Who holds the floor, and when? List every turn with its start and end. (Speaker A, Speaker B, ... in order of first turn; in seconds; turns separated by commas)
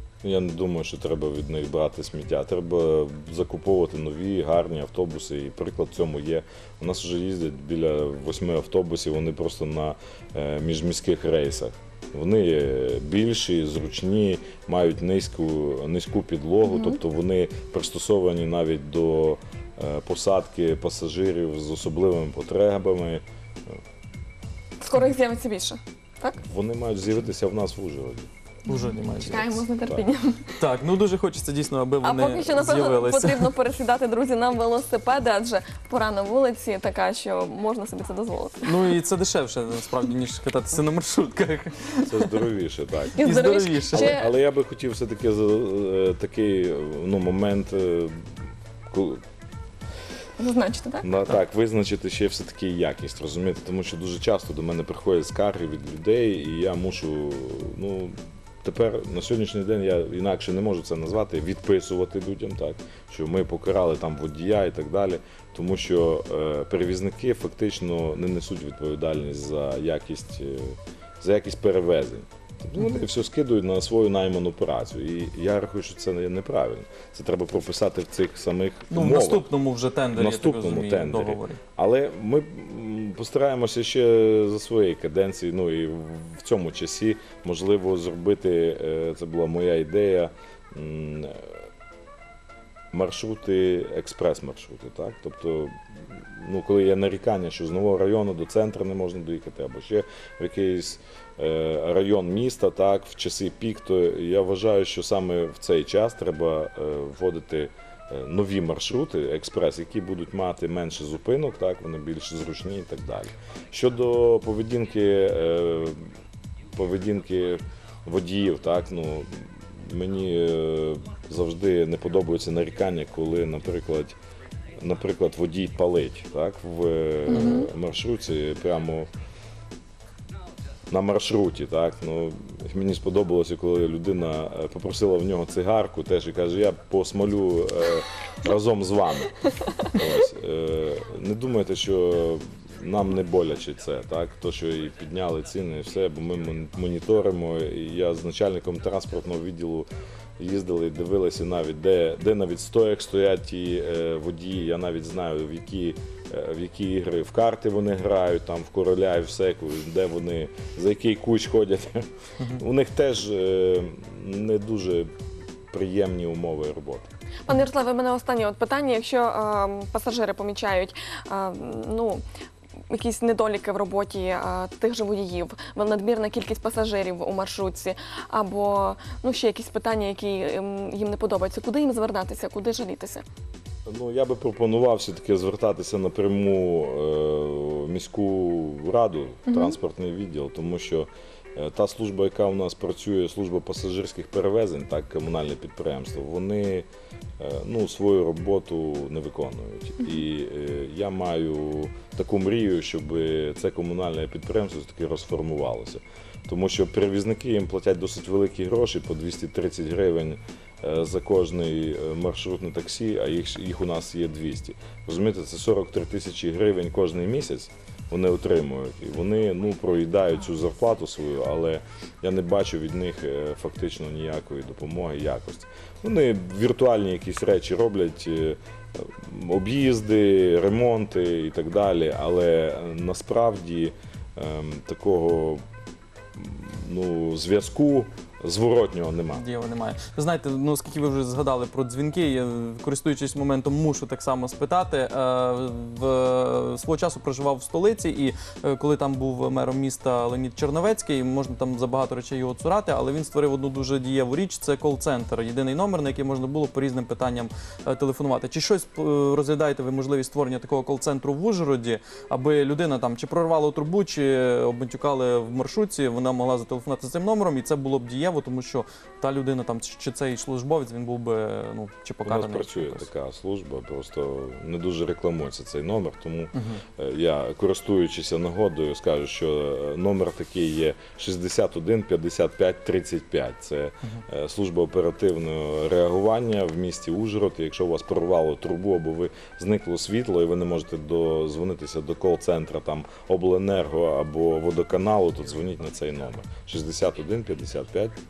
Speaker A: 0.2-23.8, Speaker B: 16.6-17.0, Speaker B: 24.8-26.4, Speaker A: 26.4-28.3, Speaker C: 28.7-29.6, Speaker B: 28.7-30.6, Speaker C: 30.5-33.5, Speaker B: 32.0-38.8, Speaker C: 38.6-42.4, Speaker A: 42.1-43.2, Speaker C: 43.2-44.2, Speaker B: 43.2-44.3, Speaker A: 43.9-48.1, Speaker A: 48.9-49.2, Speaker B: 50.4-51.0, Speaker A: 51.0-79.5, Speaker C: 78.9-81.6, Speaker A: 80.1-91.5, Speaker A: 92.9-116.0, Speaker A: 116.7-124.2, Speaker A: 124.8-129.1, Speaker B: 127.3-127.7, Speaker A: 130.9-149.9, Speaker A: 150.4-162.1, Speaker A: 162.6-165.1, Speaker A: 165.7-167.1, Speaker B: 167.5-172.2, Speaker B: 172.9-183.2, Speaker A: 183.9-196.9, Speaker B: 189.5-189.8, Speaker A: 197.4-235.6, Speaker A: 236.3-239.4, Speaker C: 239.3-273.1, Speaker A: 272.2-298.2, Speaker C: 276.5-276.8